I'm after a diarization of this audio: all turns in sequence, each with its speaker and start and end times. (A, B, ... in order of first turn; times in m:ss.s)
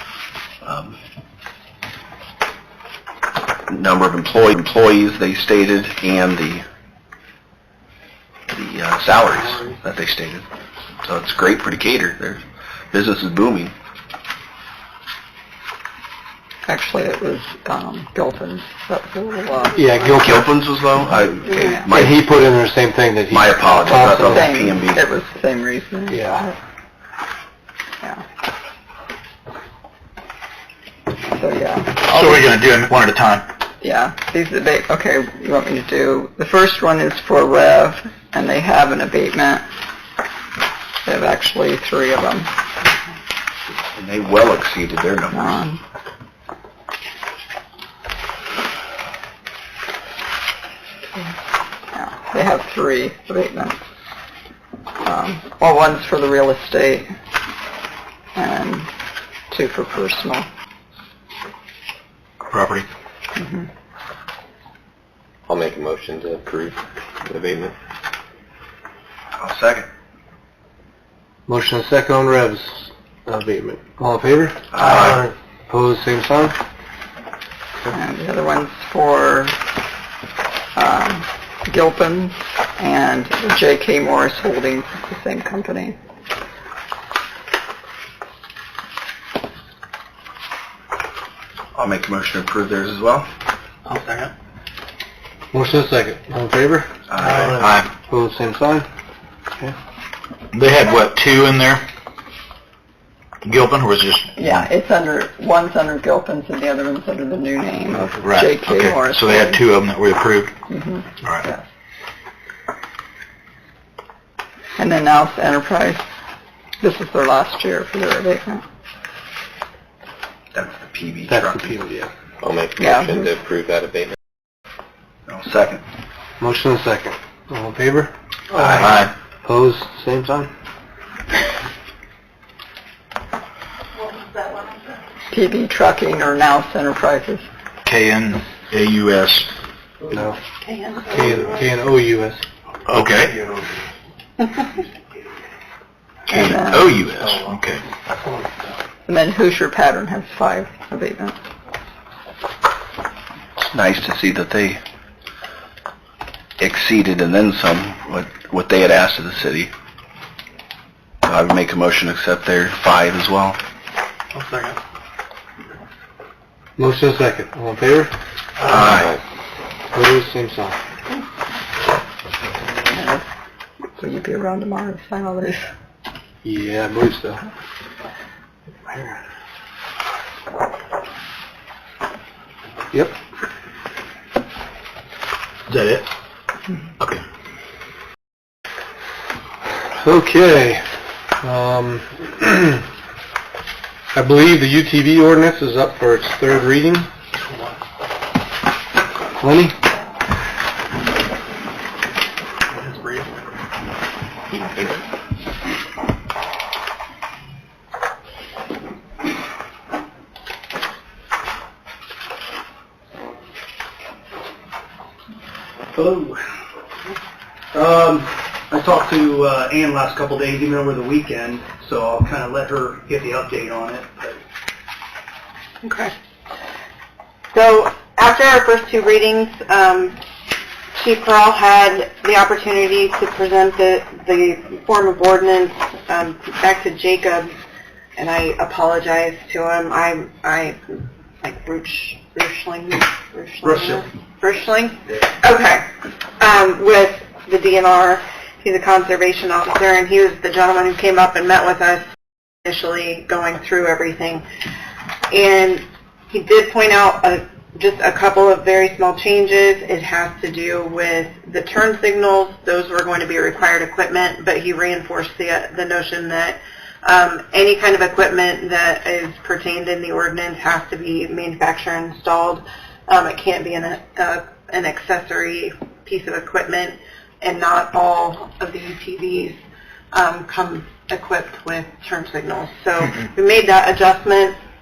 0:00.6-0:01.0 A
0:03.7-0:06.6 A
0:08.5-0:10.4 A
0:11.0-0:13.7 A
0:16.6-0:19.9 B
0:19.7-0:20.5 C
0:20.2-0:22.3 A
0:21.6-0:21.9 B
0:21.9-0:24.5 C
0:23.3-0:25.0 A
0:23.9-0:26.6 B
0:26.1-0:26.4 C
0:31.3-0:32.5 B
0:32.0-0:33.4 D
0:33.8-0:39.6 B
0:41.0-0:42.5 B
0:43.9-0:45.6 A
0:45.3-0:45.8 B
0:51.9-0:53.8 B
0:55.0-0:57.1 B
0:58.3-0:58.9 B
0:59.5-1:00.5 B
1:02.5-1:02.8 D
1:03.4-1:03.7 B
1:05.4-1:07.8 E
1:09.4-1:09.9 A
1:11.5-1:16.6 C
1:14.7-1:15.2 A
1:17.9-1:19.5 B
1:20.8-1:26.0 B
1:31.7-1:33.3 A
1:33.9-1:34.3 D
1:35.5-1:36.9 C
1:37.1-1:37.8 A
1:37.4-1:37.9 D
1:38.0-1:38.9 C
1:40.5-1:41.8 D
1:43.4-1:44.6 D
1:44.4-1:49.6 B
1:48.2-1:50.5 D
1:50.7-1:51.6 B
1:54.8-1:56.0 B
1:56.8-1:58.6 B
2:00.5-2:01.8 A
2:01.3-2:02.1 C
2:02.4-2:04.2 E
2:02.8-2:03.3 B
2:05.3-2:05.8 A
2:06.4-2:08.9 C
2:08.6-2:09.1 D
2:09.4-2:10.5 C
2:15.3-2:17.5 B
2:17.8-2:19.5 D
2:20.1-2:20.4 C
2:20.6-2:21.6 F
2:21.0-2:22.4 C
2:22.9-2:23.4 D
2:26.3-2:27.8 D
2:26.3-2:26.9 B
2:29.0-2:31.4 B
2:33.6-2:34.8 A
2:36.6-2:39.7 A
2:41.2-2:43.6 A
2:44.4-2:44.7 D
2:46.8-2:48.1 C
2:48.6-2:49.1 A
2:49.9-2:50.8 C
2:52.9-2:53.3 B
2:54.0-2:55.7 B
2:56.4-2:57.4 C
2:58.8-2:59.2 C
3:05.7-3:06.0 D
3:10.0-3:10.8 C
3:11.4-3:12.8 C
3:14.1-3:17.1 C
3:19.4-3:19.8 C
3:35.9-3:36.4 G
3:37.7-3:44.4 G
3:45.8-3:46.1 F
3:47.5-3:50.2 F
3:51.0-3:57.5 F
3:58.2-4:05.9 F
4:03.6-4:04.0 G
4:06.4-4:12.0 F
4:12.6-4:14.4 F
4:15.3-4:39.6 F
4:40.1-4:44.6 F